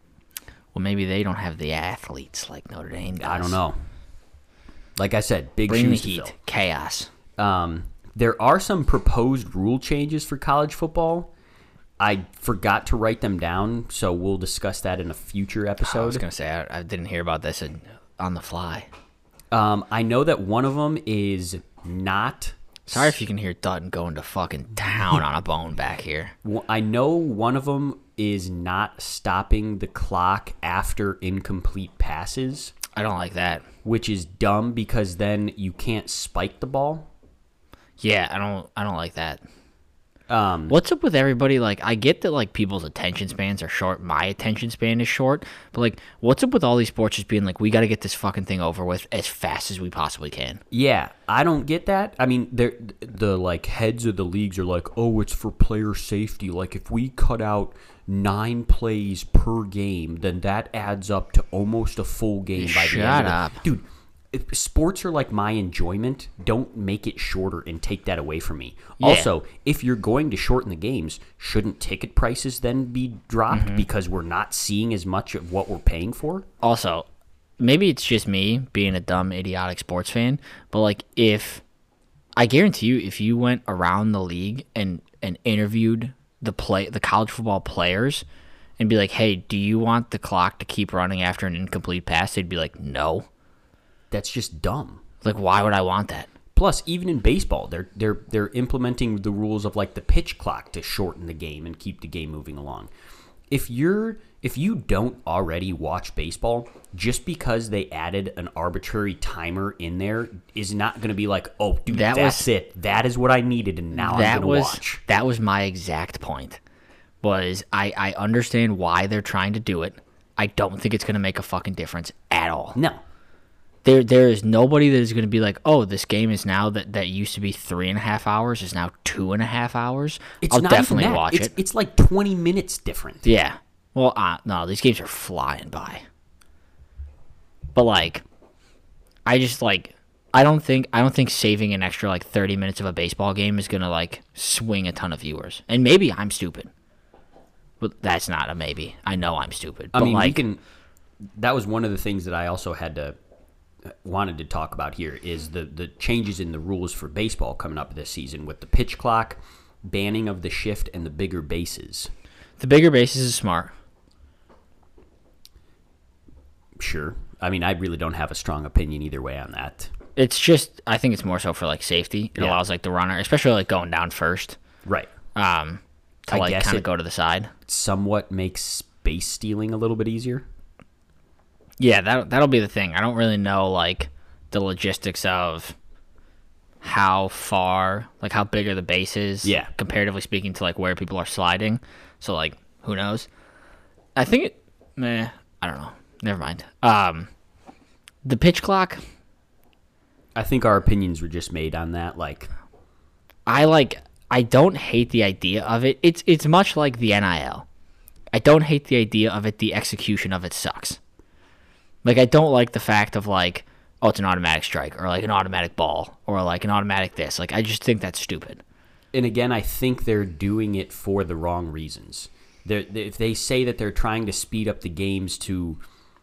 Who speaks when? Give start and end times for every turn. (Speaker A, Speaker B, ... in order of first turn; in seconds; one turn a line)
Speaker A: 0.7-3.6
Speaker B: 3.2-3.8
Speaker B: 5.0-6.3
Speaker A: 5.7-7.1
Speaker B: 7.4-11.3
Speaker B: 12.0-16.2
Speaker A: 15.8-18.9
Speaker B: 19.5-23.1
Speaker A: 22.9-26.3
Speaker B: 26.4-32.7
Speaker A: 32.9-33.6
Speaker B: 33.8-37.1
Speaker A: 38.0-39.4
Speaker B: 40.3-40.8
Speaker A: 40.7-50.6
Speaker B: 50.7-76.4
Speaker A: 62.6-63.6
Speaker A: 69.0-69.3
Speaker A: 73.5-73.8
Speaker A: 76.6-77.0
Speaker A: 77.6-81.6
Speaker A: 82.4-88.2
Speaker A: 88.8-93.3
Speaker B: 94.1-95.0
Speaker A: 95.2-96.3
Speaker B: 96.5-102.9
Speaker B: 103.5-115.0
Speaker A: 111.9-112.5
Speaker A: 114.0-116.6
Speaker A: 117.2-122.8
Speaker B: 122.8-123.0
Speaker A: 123.8-131.5
Speaker B: 130.4-133.2
Speaker A: 133.2-136.0
Speaker A: 137.7-138.2
Speaker A: 139.2-146.7
Speaker A: 147.8-150.4
Speaker B: 149.9-150.6
Speaker B: 151.3-153.2
Speaker B: 153.8-162.1
Speaker A: 162.6-163.7
Speaker B: 166.8-169.9
Speaker A: 170.2-174.6
Speaker B: 174.8-175.1
Speaker A: 175.3-177.5
Speaker B: 176.3-176.8
Speaker B: 177.7-180.4
Speaker A: 181.8-185.8
Speaker A: 186.8-193.3
Speaker B: 189.4-189.7
Speaker A: 194.2-197.3
Speaker A: 198.2-199.0
Speaker B: 200.3-202.5
Speaker A: 203.5-207.7
Speaker A: 208.3-211.0
Speaker A: 212.0-218.6
Speaker B: 219.1-225.8